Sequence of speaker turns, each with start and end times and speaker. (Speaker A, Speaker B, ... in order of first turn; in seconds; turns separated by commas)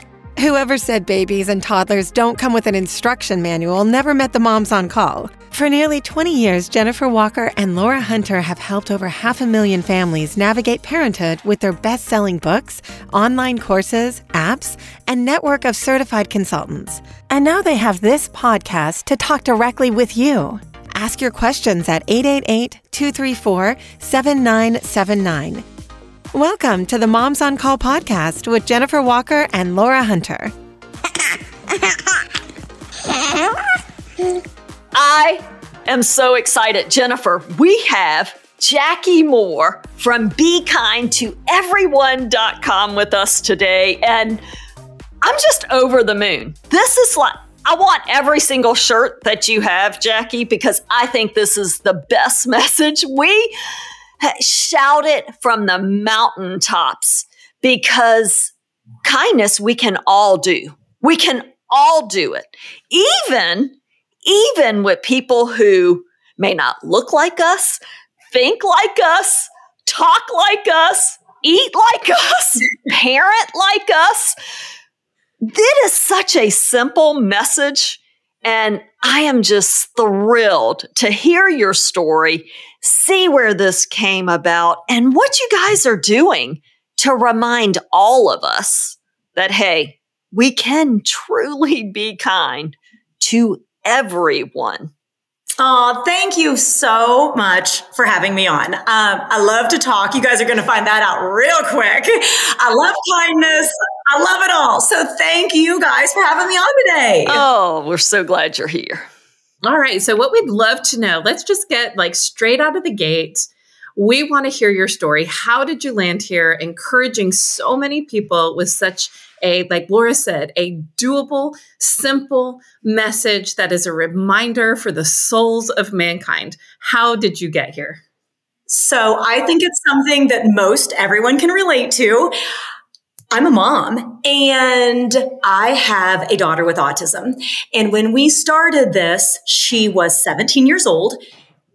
Speaker A: 0.4-25.6, Speaker A: 26.3-30.5, Speaker B: 34.9-44.4, Speaker B: 45.2-53.5, Speaker B: 54.2-58.5, Speaker B: 59.0-63.7, Speaker B: 64.2-67.8, Speaker B: 68.3-74.3, Speaker B: 75.4-94.9, Speaker C: 95.6-107.5, Speaker B: 107.2-109.1, Speaker D: 109.6-128.0, Speaker C: 128.7-132.3, Speaker C: 133.3-141.2